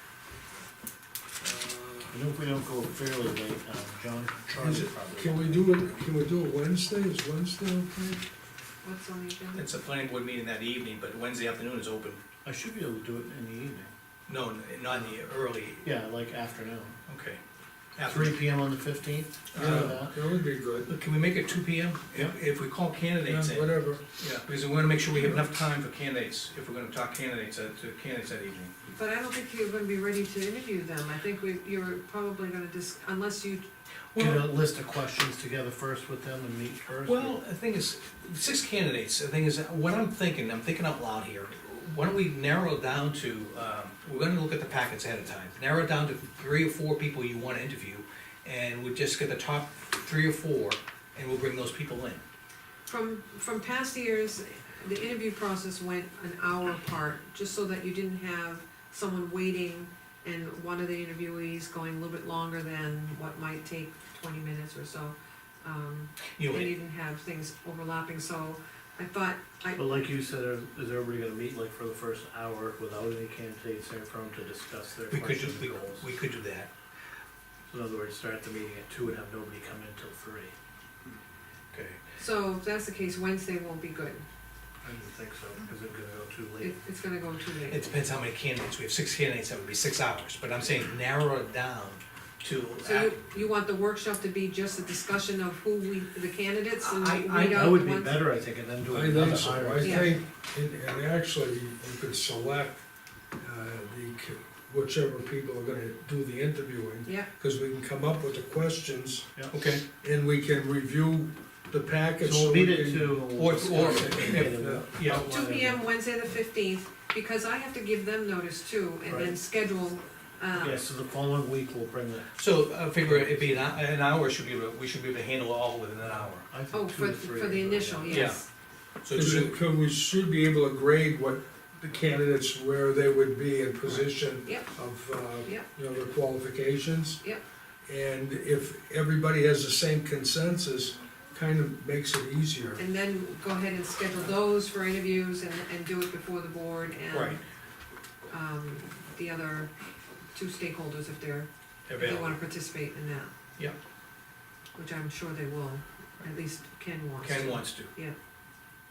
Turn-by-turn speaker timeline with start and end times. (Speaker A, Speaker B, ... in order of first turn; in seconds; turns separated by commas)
Speaker A: 1.4-2.1, Speaker B: 2.1-6.0, Speaker A: 4.6-8.2, Speaker C: 8.8-9.6, Speaker D: 9.5-12.2, Speaker B: 12.4-13.9, Speaker D: 14.3-15.9, Speaker B: 15.8-16.9, Speaker D: 17.1-17.4, Speaker D: 17.9-18.4, Speaker B: 18.0-20.2, Speaker D: 19.5-20.0, Speaker A: 19.5-20.9, Speaker D: 20.9-28.7, Speaker A: 23.2-24.0, Speaker C: 28.9-33.6, Speaker D: 34.1-34.5, Speaker B: 34.1-37.4, Speaker D: 37.0-52.2, Speaker C: 52.9-70.1, Speaker D: 66.3-66.7, Speaker B: 69.7-76.0, Speaker D: 75.1-76.7, Speaker B: 77.7-80.5, Speaker D: 81.7-82.0, Speaker C: 82.2-84.2, Speaker B: 84.8-86.8, Speaker C: 86.6-87.8, Speaker D: 87.7-93.1, Speaker C: 92.8-98.3, Speaker D: 96.8-97.7, Speaker B: 97.5-100.2, Speaker A: 98.9-102.8, Speaker C: 99.8-100.2, Speaker A: 103.4-109.3, Speaker C: 107.0-107.3, Speaker D: 109.5-109.8, Speaker A: 110.0-113.2, Speaker B: 112.2-115.9, Speaker D: 113.3-115.3, Speaker A: 113.8-114.9, Speaker C: 115.0-120.8, Speaker B: 119.0-119.4, Speaker B: 120.5-122.3, Speaker D: 122.4-126.5, Speaker B: 123.0-123.7, Speaker B: 126.5-128.4, Speaker C: 126.7-128.4, Speaker D: 128.1-128.4, Speaker D: 129.0-129.5, Speaker A: 129.1-137.2, Speaker C: 134.4-134.7, Speaker A: 137.8-142.8, Speaker C: 142.7-147.4, Speaker D: 147.1-147.4, Speaker C: 148.3-149.7, Speaker C: 150.3-153.3, Speaker D: 151.9-152.4, Speaker C: 154.7-158.1, Speaker D: 157.2-157.9